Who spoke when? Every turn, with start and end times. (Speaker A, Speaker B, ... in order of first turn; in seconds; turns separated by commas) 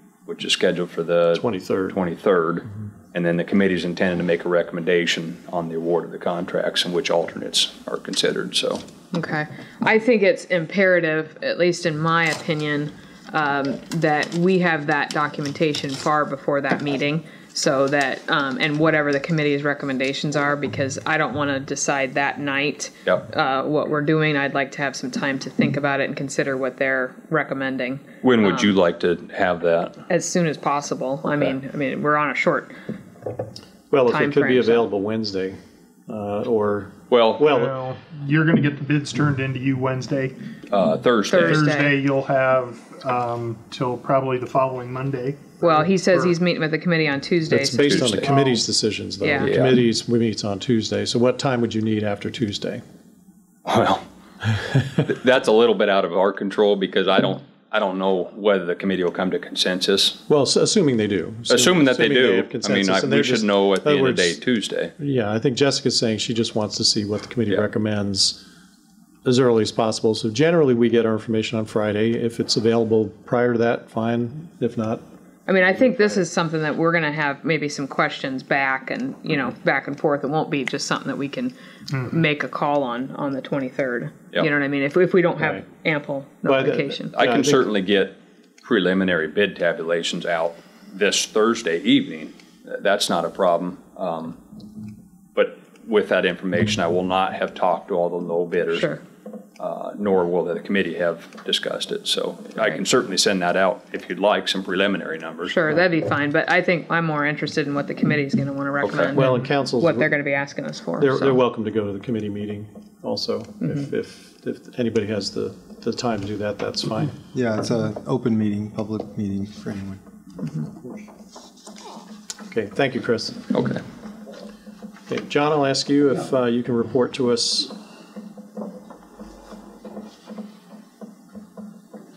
Speaker A: 0.2-8.8, Speaker B: 1.3-2.0, Speaker C: 9.1-28.8, Speaker A: 28.2-30.0, Speaker C: 30.1-32.7, Speaker B: 33.9-37.8, Speaker C: 34.1-34.9, Speaker A: 37.1-37.4, Speaker D: 37.4-40.4, Speaker A: 40.7-41.7, Speaker C: 41.3-42.0, Speaker D: 41.5-46.3, Speaker C: 45.6-48.6, Speaker B: 47.5-52.8, Speaker A: 47.8-48.3, Speaker C: 49.2-49.5, Speaker A: 49.4-49.8, Speaker A: 53.6-54.0, Speaker A: 55.0-60.2, Speaker B: 60.3-64.4, Speaker A: 61.5-64.9, Speaker B: 65.0-68.4, Speaker B: 69.2-75.0, Speaker C: 75.5-87.1, Speaker B: 86.4-87.7, Speaker A: 87.1-94.4, Speaker A: 95.3-98.9, Speaker C: 98.7-99.0, Speaker A: 99.6-105.5, Speaker C: 105.4-111.4, Speaker A: 108.8-109.1, Speaker B: 109.1-110.1, Speaker B: 111.0-117.2, Speaker E: 117.3-120.0, Speaker B: 122.5-123.4, Speaker A: 123.5-123.8, Speaker B: 125.1-127.7